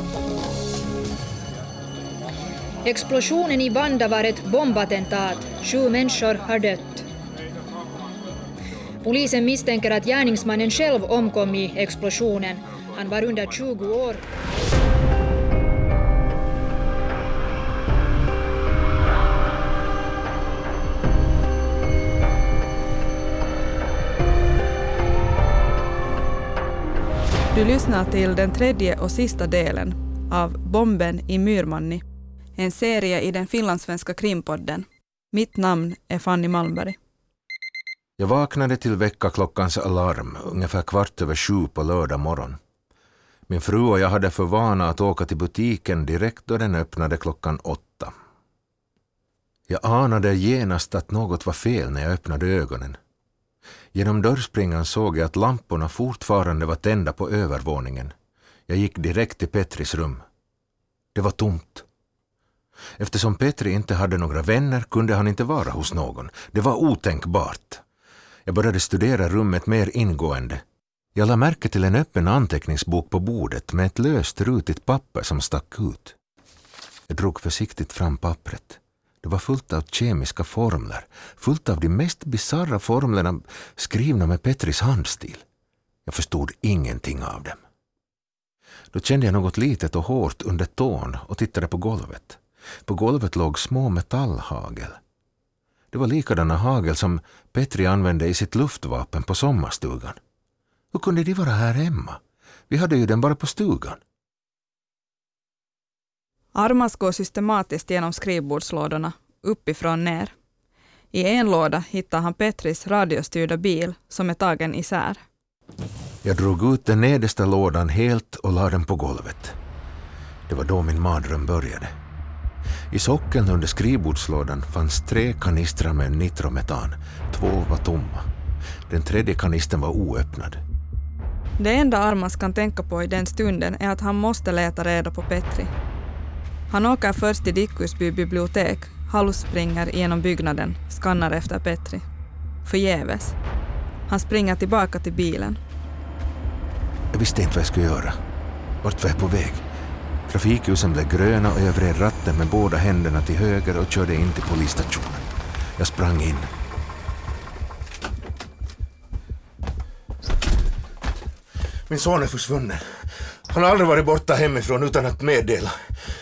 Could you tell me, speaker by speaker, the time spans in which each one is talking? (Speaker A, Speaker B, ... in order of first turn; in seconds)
Speaker A: 2.8-7.0, 9.0-14.2
Speaker B: 27.5-32.0, 32.6-37.0, 106.5-110.3, 111.1-115.2, 131.6-135.7, 136.7-142.0, 142.6-143.3, 144.1-145.6
Speaker C: 38.2-42.6, 43.5-48.1, 49.7-53.0, 53.9-58.1, 58.7-60.2, 61.1-61.9, 63.0-67.8, 68.5-70.6, 71.1-76.2, 77.1-85.4, 86.1-87.6, 88.9-95.0, 95.9-100.2, 100.9-104.0, 116.2-119.5, 120.5-121.9, 122.9-128.3, 128.9-130.6, 147.1-148.1, 148.8-149.7, 150.3-156.5, 161.9-165.9